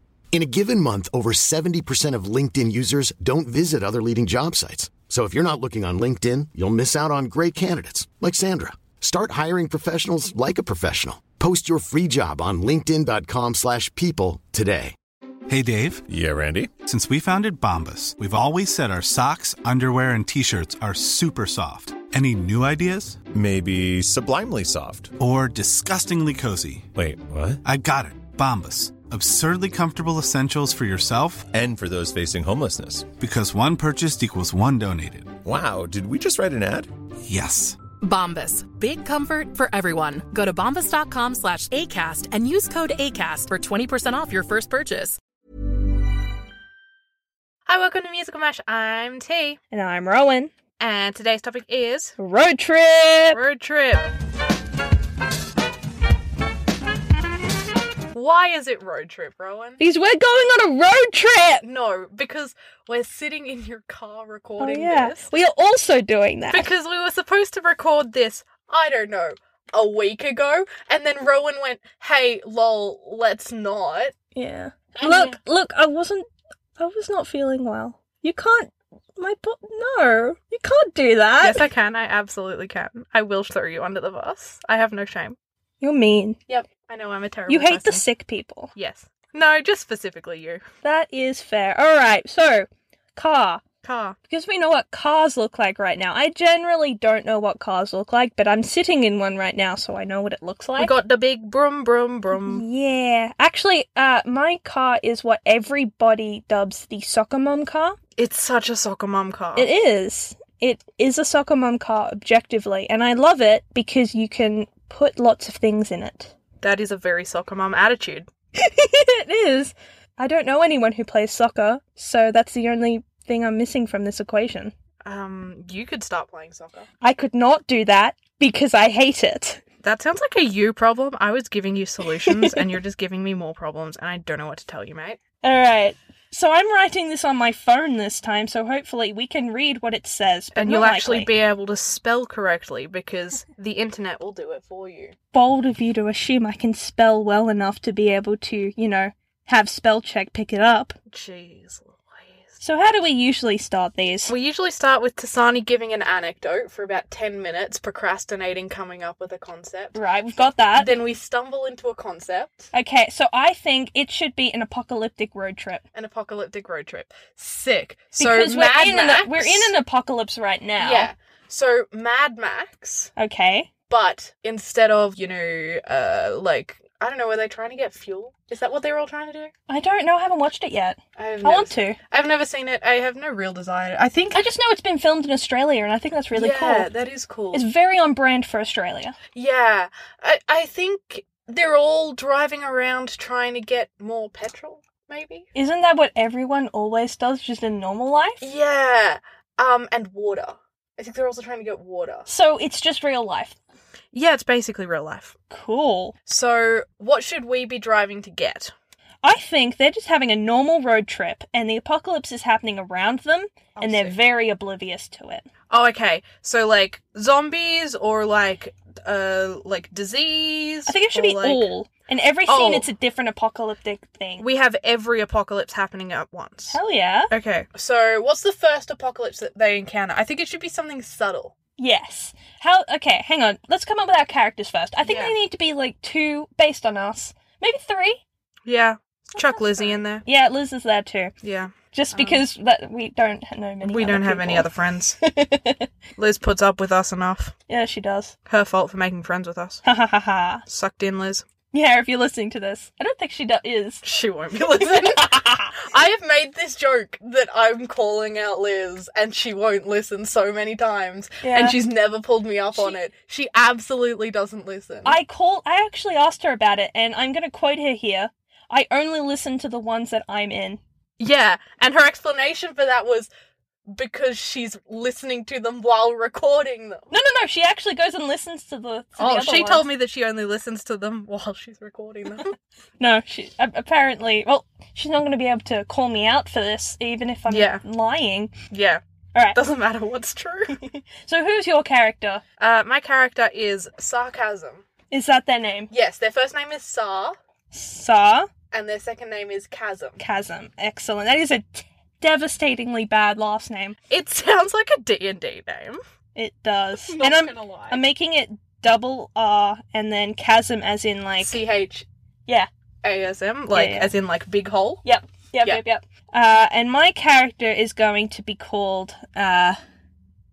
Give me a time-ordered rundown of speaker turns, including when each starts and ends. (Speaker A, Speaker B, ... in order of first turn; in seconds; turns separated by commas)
Speaker A: 0.3-14.9, Speaker B: 15.5-16.1, Speaker C: 16.1-16.7, Speaker B: 16.8-23.2, Speaker C: 23.3-25.1, Speaker B: 25.2-26.9, Speaker C: 27.0-27.6, Speaker B: 27.6-31.5, Speaker C: 31.5-33.1, Speaker B: 33.2-35.4, Speaker C: 35.5-36.9, Speaker B: 37.2-37.8, Speaker D: 38.0-45.2, Speaker E: 47.7-49.6, Speaker F: 49.7-50.5, Speaker E: 50.8-52.2, Speaker F: 52.2-53.4, Speaker E: 53.3-54.1, Speaker E: 58.1-59.8, Speaker F: 59.8-61.6, Speaker E: 61.6-65.3, Speaker F: 64.6-66.7, Speaker E: 66.5-74.1, Speaker F: 74.3-76.3, Speaker E: 75.0-75.4, Speaker F: 76.8-81.7, Speaker E: 81.4-85.4, Speaker F: 85.8-86.4, Speaker E: 86.5-88.0, Speaker F: 87.5-88.7, Speaker E: 88.8-90.6, Speaker F: 90.8-93.6, Speaker E: 93.8-94.2, Speaker F: 94.3-100.9, Speaker E: 100.8-102.7, Speaker F: 102.3-108.0, Speaker E: 108.2-109.7, Speaker F: 109.6-116.3, Speaker E: 116.6-118.3, Speaker F: 118.6-124.7, Speaker E: 125.0-126.9, Speaker F: 127.0-129.6, Speaker E: 129.8-135.2, Speaker F: 132.3-132.6, Speaker F: 135.4-141.3, Speaker E: 140.6-145.2, Speaker F: 145.3-150.9, Speaker E: 151.1-152.6, Speaker F: 152.6-154.3, Speaker E: 154.3-160.0, Speaker F: 159.9-161.0, Speaker E: 160.8-162.7, Speaker F: 162.7-165.8, Speaker E: 165.9-169.7, Speaker F: 168.2-171.1, Speaker E: 170.8-173.1, Speaker F: 173.2-173.7, Speaker E: 173.9-179.5, Speaker F: 179.7-182.0, Speaker E: 181.2-184.5, Speaker F: 184.3-186.9, Speaker E: 186.3-187.6, Speaker F: 187.5-189.2, Speaker E: 189.3-195.5, Speaker F: 195.6-198.5, Speaker E: 198.4-202.3, Speaker F: 202.3-203.6, Speaker E: 204.1-205.3, Speaker F: 205.5-206.1, Speaker E: 206.3-208.7, Speaker F: 209.2-215.5, Speaker E: 213.8-214.2, Speaker E: 215.7-221.7, Speaker F: 220.9-224.4, Speaker E: 222.5-222.9, Speaker E: 224.4-226.8, Speaker F: 226.7-227.3, Speaker E: 227.3-231.5, Speaker F: 231.8-238.2, Speaker E: 235.0-235.4, Speaker E: 238.7-240.2, Speaker F: 239.4-241.3, Speaker E: 241.4-242.4, Speaker F: 241.9-244.7, Speaker E: 243.8-245.2, Speaker F: 245.2-245.9, Speaker E: 246.2-247.5, Speaker F: 247.7-248.3, Speaker E: 248.5-249.8, Speaker F: 249.8-250.6, Speaker E: 250.7-251.4, Speaker F: 251.7-254.0, Speaker E: 254.0-265.2, Speaker F: 254.7-255.8, Speaker F: 261.4-261.8, Speaker F: 262.7-263.0, Speaker F: 265.1-270.8, Speaker E: 271.2-273.3, Speaker E: 273.9-277.1, Speaker F: 277.1-279.9, Speaker E: 279.2-282.6, Speaker F: 283.0-288.5, Speaker E: 287.5-287.8, Speaker E: 288.7-289.0, Speaker E: 289.5-290.8, Speaker F: 290.8-292.4, Speaker E: 292.6-294.9, Speaker F: 295.1-295.9, Speaker E: 295.9-297.4, Speaker F: 297.7-298.5, Speaker E: 298.7-300.2, Speaker F: 300.2-304.0, Speaker E: 304.1-306.0, Speaker F: 306.4-311.6, Speaker E: 307.1-308.0, Speaker E: 311.4-312.1, Speaker E: 313.0-315.0, Speaker F: 313.7-314.1, Speaker F: 315.0-319.8